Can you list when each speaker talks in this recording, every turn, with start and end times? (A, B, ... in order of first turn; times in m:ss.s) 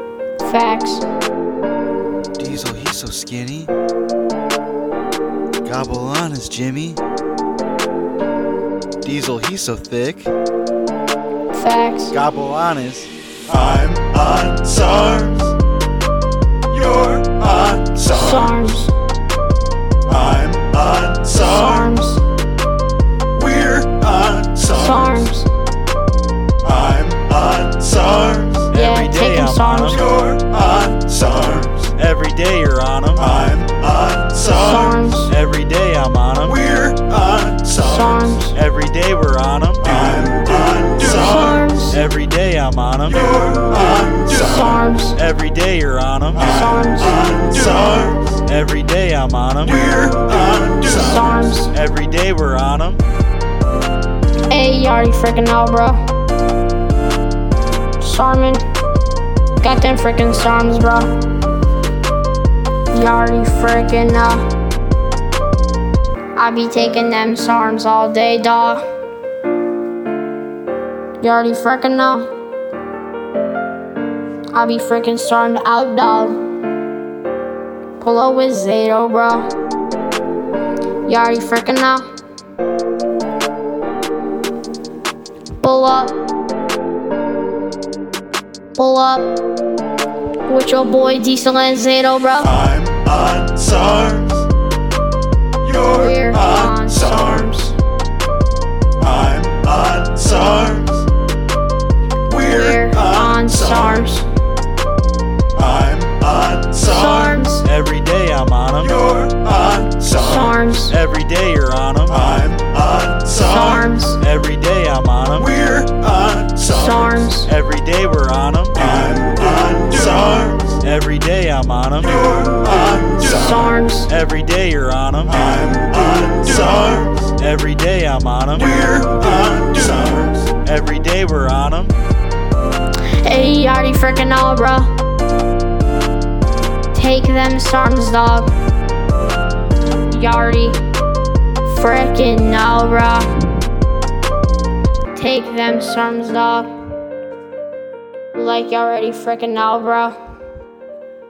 0:00.4-0:01.0 A
0:02.4-0:03.7 B
0:05.6-0:07.0 B
0:09.0-0:10.3 B
0:11.5-0:12.1 A
0:12.1-0:15.5 B
0:16.8-0:18.5 B
0:18.1-0:18.9 A
0:20.1-0:21.5 B
0:21.3-0:22.2 A
0:23.3-0:25.2 B
0:24.7-0:25.5 A
0:26.6-0:34.5 B
0:28.7-0:30.1 A
0:34.4-0:35.3 A
0:35.2-0:44.3 B
0:37.8-0:38.6 A
0:41.0-0:42.0 A
0:44.2-0:45.2 A
0:45.2-0:46.6 B
0:46.4-0:47.4 A
0:47.4-0:53.0 B
0:50.8-0:51.7 A
0:54.5-0:56.0 A
0:58.0-0:58.6 A
0:59.6-1:01.1 A
1:02.9-1:04.5 A
1:06.4-1:08.8 A
1:11.2-1:12.3 A
1:14.5-1:16.4 A
1:18.0-1:19.5 A
1:21.0-1:22.1 A
1:25.6-1:26.2 A
1:28.7-1:29.3 A
1:30.4-1:32.6 A
1:32.6-1:34.3 B
1:35.7-1:37.8 A
1:39.0-1:41.0 B
1:42.3-1:44.3 A
1:45.6-1:46.9 B
1:46.8-1:47.6 A
1:47.5-1:53.5 B
1:50.1-1:50.9 A
1:53.3-1:54.2 A
1:54.2-2:02.8 B
1:56.7-1:57.5 A
2:03.1-2:04.1 A
2:04.1-2:12.0 B
2:13.2-2:14.9 A
2:16.9-2:18.5 A
2:20.1-2:20.8 A
2:21.6-2:23.3 A
2:25.1-2:26.7 A
2:28.3-2:30.2 A